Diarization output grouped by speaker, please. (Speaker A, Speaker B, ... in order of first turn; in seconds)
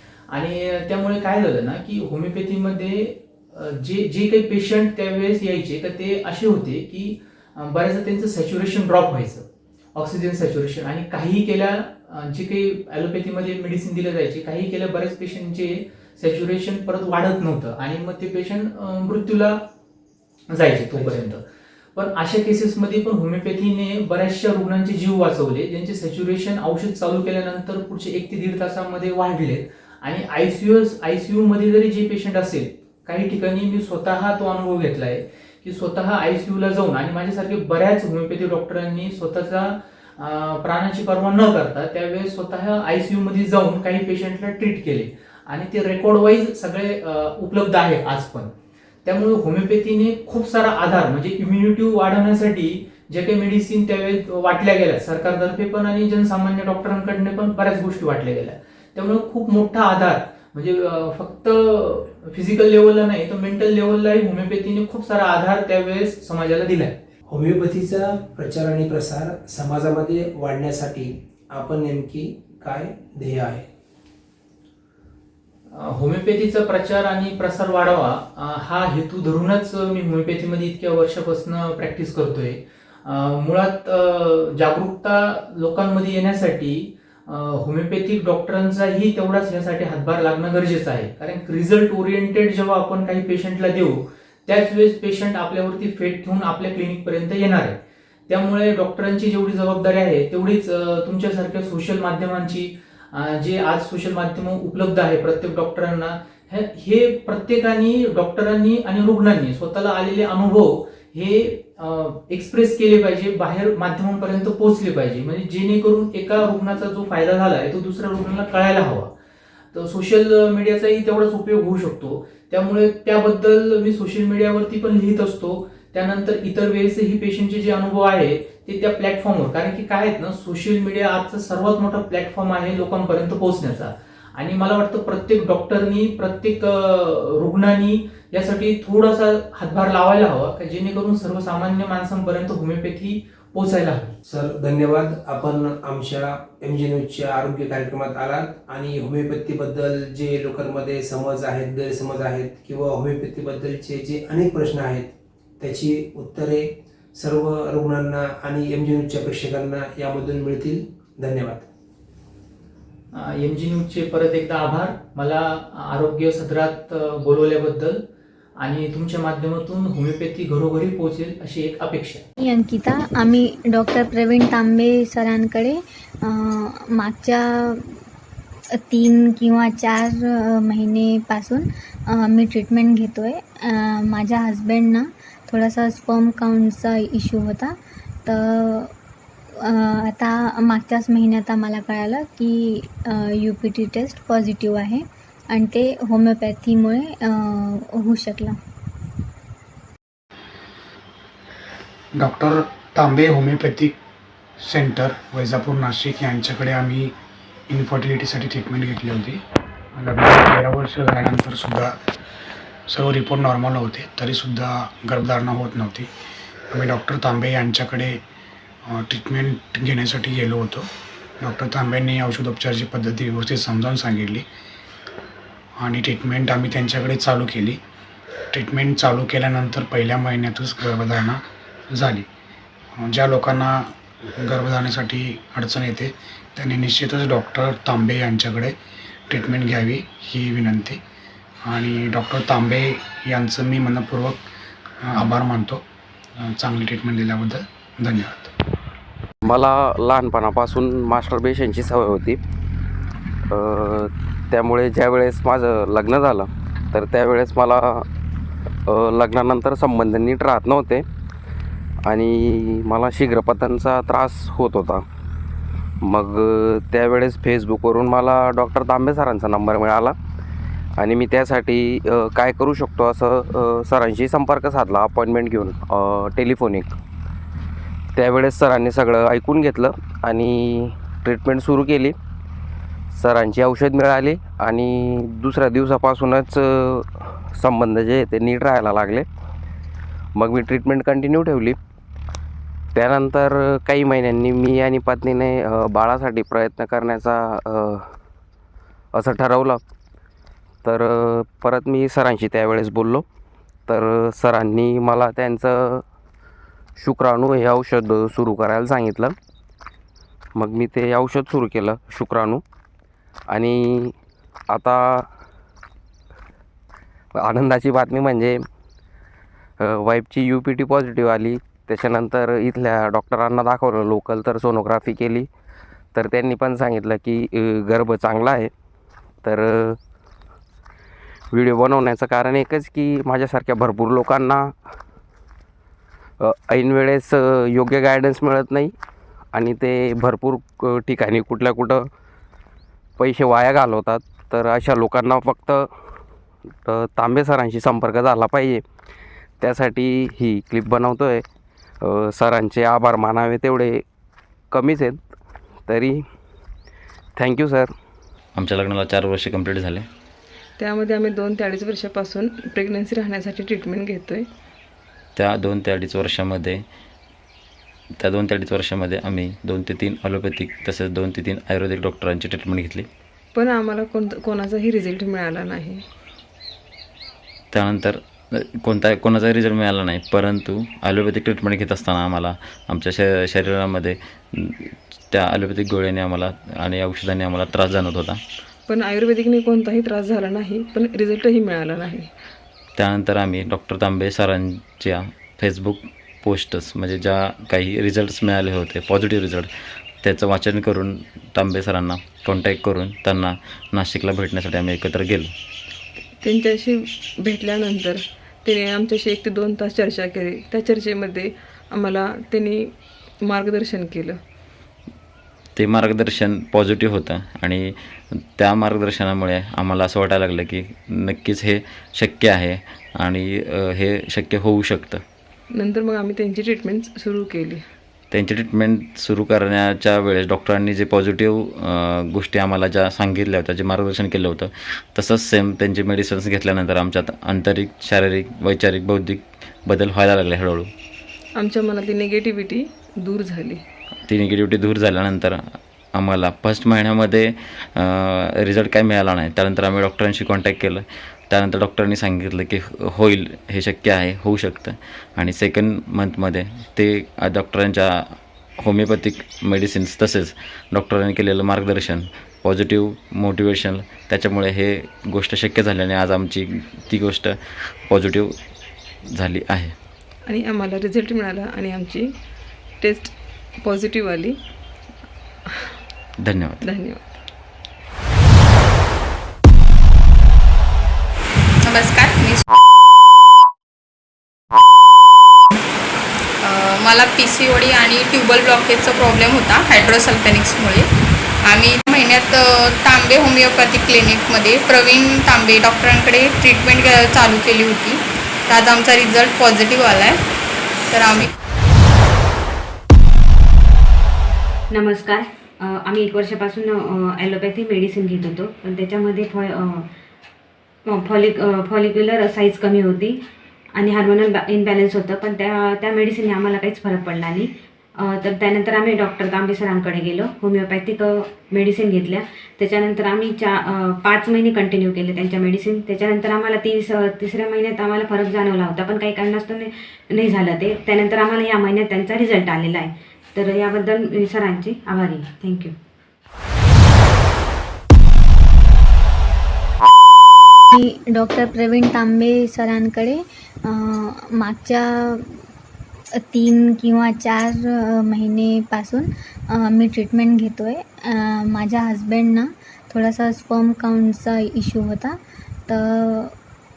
Speaker A: 0.3-19.6, 20.5-21.4, 21.9-48.5, 49.0-67.0, 75.7-119.1, 119.7-144.2, 163.1-168.0, 168.6-172.2
Speaker B: 67.3-73.7, 144.2-161.7
Speaker C: 172.4-178.0, 178.8-188.9, 189.6-198.6, 540.9-545.6, 546.4-556.5
Speaker D: 202.2-203.9, 204.6-207.1, 207.7-209.4, 209.9-211.9, 212.9-216.1, 216.7-218.2, 218.8-220.9, 221.4-224.4, 225.8-227.8, 228.5-232.3, 232.9-238.7, 239.3-241.0, 241.6-244.4, 245.0-245.8, 246.4-248.5
Speaker E: 249.4-252.4, 253.5-258.0, 258.9-261.0, 262.1-265.0, 266.0-270.1, 271.0-276.9, 278.1-282.1, 283.1-289.2, 290.4-291.8, 292.9-298.1, 299.1-299.8, 300.8-303.2, 303.9-306.0, 307.0-309.3, 310.6-312.6, 313.5-314.1, 314.7-315.3, 317.4-318.6, 319.8-325.5, 326.1-328.7, 329.4-330.0, 331.5-334.7, 336.4-338.9, 339.5-342.1, 343.2-345.9, 346.8-348.8, 349.6-351.4, 352.0-354.0, 354.7-355.3, 355.9-356.2, 357.4-357.9
Speaker F: 358.5-360.1, 365.4-366.8, 368.2-373.1, 377.7-388.4, 392.9-399.7, 400.2-405.5, 415.8-425.2, 428.3-440.9, 444.2-468.6, 469.2-469.9, 476.4-476.8
Speaker G: 360.8-364.5, 373.5-376.0, 388.9-392.3, 406.4-412.9, 413.4-414.4, 425.7-427.8, 441.6-443.8, 470.5-472.3, 473.0-474.6, 476.8-477.2
Speaker H: 481.8-482.6, 486.6-491.1, 491.6-500.4, 501.1-501.5
Speaker I: 504.9-510.1, 511.1-513.4, 513.9-535.9